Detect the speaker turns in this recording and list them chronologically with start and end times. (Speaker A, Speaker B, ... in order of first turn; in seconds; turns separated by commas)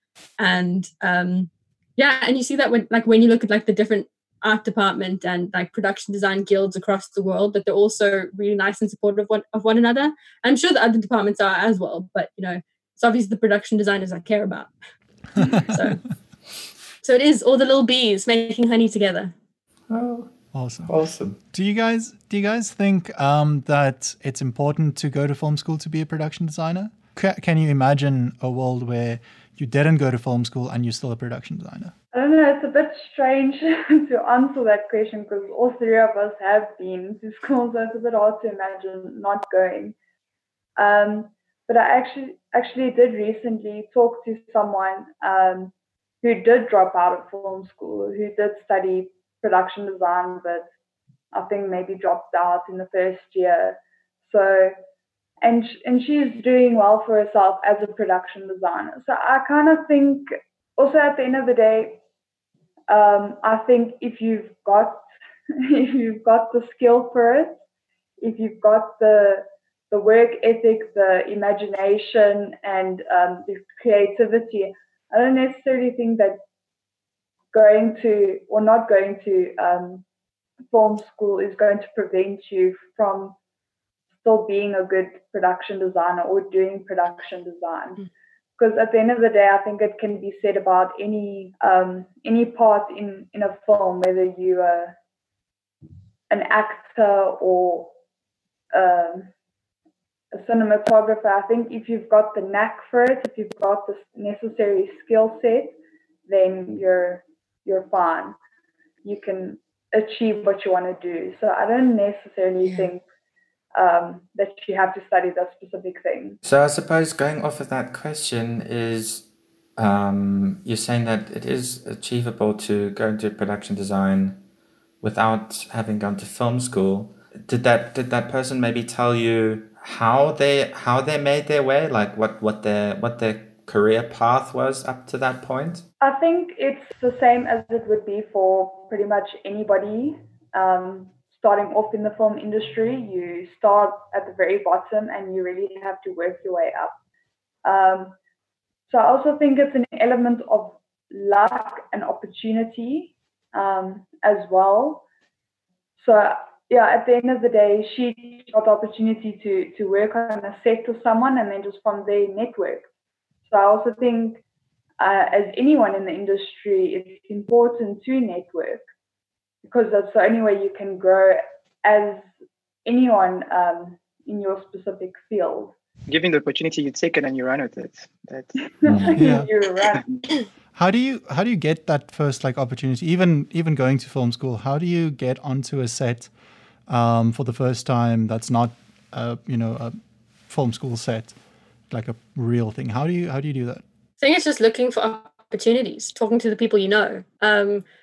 Speaker A: 0.4-14.7, Speaker A: 15.4-16.0, Speaker A: 17.0-19.3, Speaker B: 19.9-20.3, Speaker C: 20.5-20.9, Speaker B: 20.9-21.4, Speaker C: 21.5-31.9, Speaker D: 32.1-40.0, Speaker D: 40.8-50.7, Speaker D: 51.3-54.8, Speaker D: 55.4-62.0, Speaker D: 62.9-65.0, Speaker D: 65.6-67.6, Speaker D: 68.2-76.4, Speaker D: 77.5-80.0, Speaker D: 80.7-83.3, Speaker D: 84.2-88.0, Speaker D: 88.6-95.0, Speaker D: 96.3-97.9, Speaker D: 98.7-99.3, Speaker D: 100.3-108.4, Speaker D: 109.0-113.0, Speaker D: 113.7-116.4, Speaker B: 116.4-119.2, Speaker B: 119.8-124.4, Speaker B: 125.0-135.8, Speaker D: 136.0-146.9, Speaker D: 147.6-148.2, Speaker D: 148.9-155.0, Speaker D: 156.0-162.8, Speaker D: 163.5-164.4, Speaker D: 165.0-168.8, Speaker D: 169.6-172.3, Speaker D: 172.8-175.8, Speaker E: 176.1-178.6, Speaker D: 178.8-180.3, Speaker B: 178.8-179.2, Speaker C: 179.1-179.5, Speaker C: 180.7-186.3, Speaker C: 186.9-189.9, Speaker C: 190.5-191.3, Speaker C: 191.9-193.8, Speaker A: 194.2-197.8